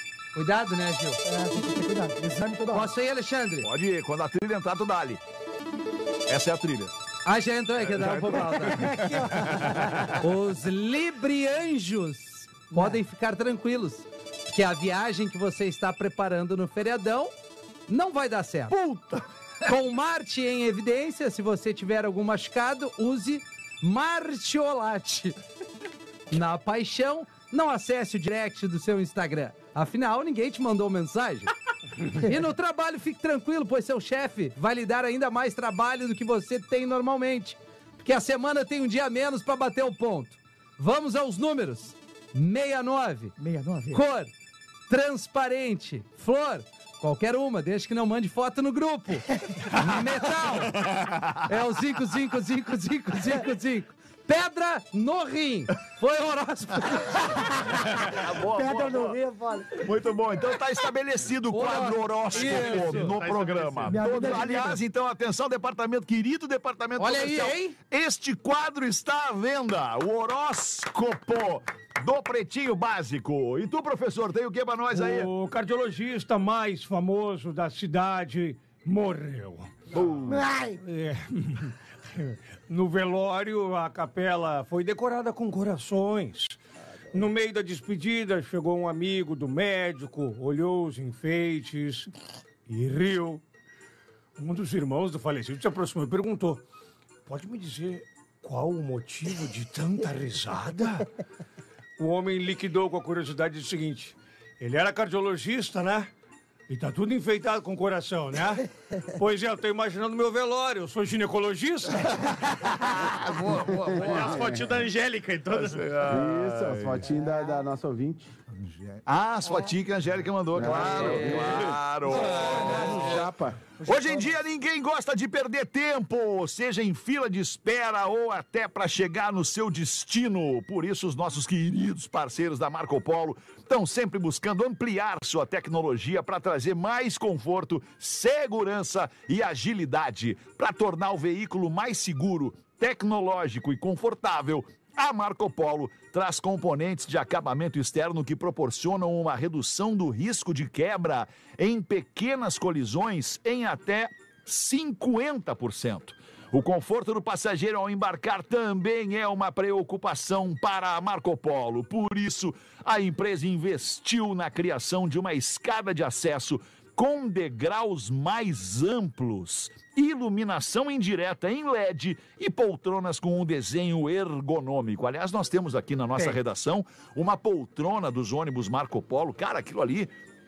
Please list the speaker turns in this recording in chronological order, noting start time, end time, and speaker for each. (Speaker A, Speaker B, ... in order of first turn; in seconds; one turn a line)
Speaker A: 0.3-1.2
Speaker B: 1.2-2.9
Speaker A: 2.7-3.7
Speaker C: 3.6-5.2
Speaker C: 6.3-6.9
Speaker A: 7.2-17.3
Speaker C: 7.9-9.0
Speaker B: 8.7-9.7
Speaker B: 12.7-13.0
Speaker A: 17.9-18.8
Speaker C: 18.7-19.2
Speaker A: 19.6-25.4
Speaker A: 26.3-31.5
Speaker A: 32.1-43.3
Speaker B: 43.4-44.0
Speaker A: 43.9-44.3
Speaker A: 44.9-50.9
Speaker C: 50.9-51.4
Speaker A: 51.4-57.2
Speaker C: 58.0-59.2
Speaker B: 58.4-59.9
Speaker C: 59.8-75.3
Speaker A: 61.5-63.1
Speaker D: 62.3-64.1
Speaker B: 63.9-64.8
Speaker A: 67.0-67.8
Speaker E: 74.9-80.0
Speaker C: 79.9-80.4
Speaker B: 80.2-80.8
Speaker E: 80.8-86.6
Speaker E: 87.1-92.1
Speaker E: 92.7-93.4
Speaker E: 94.4-96.6
Speaker E: 97.3-101.1
Speaker E: 102.0-106.1
Speaker E: 106.7-112.3
Speaker C: 112.7-114.2
Speaker F: 113.7-114.7
Speaker D: 113.8-116.0
Speaker C: 115.6-117.0
Speaker F: 116.1-118.3
Speaker C: 118.6-122.9
Speaker F: 120.5-123.8
Speaker B: 122.1-123.2
Speaker B: 123.8-124.3
Speaker C: 123.8-180.1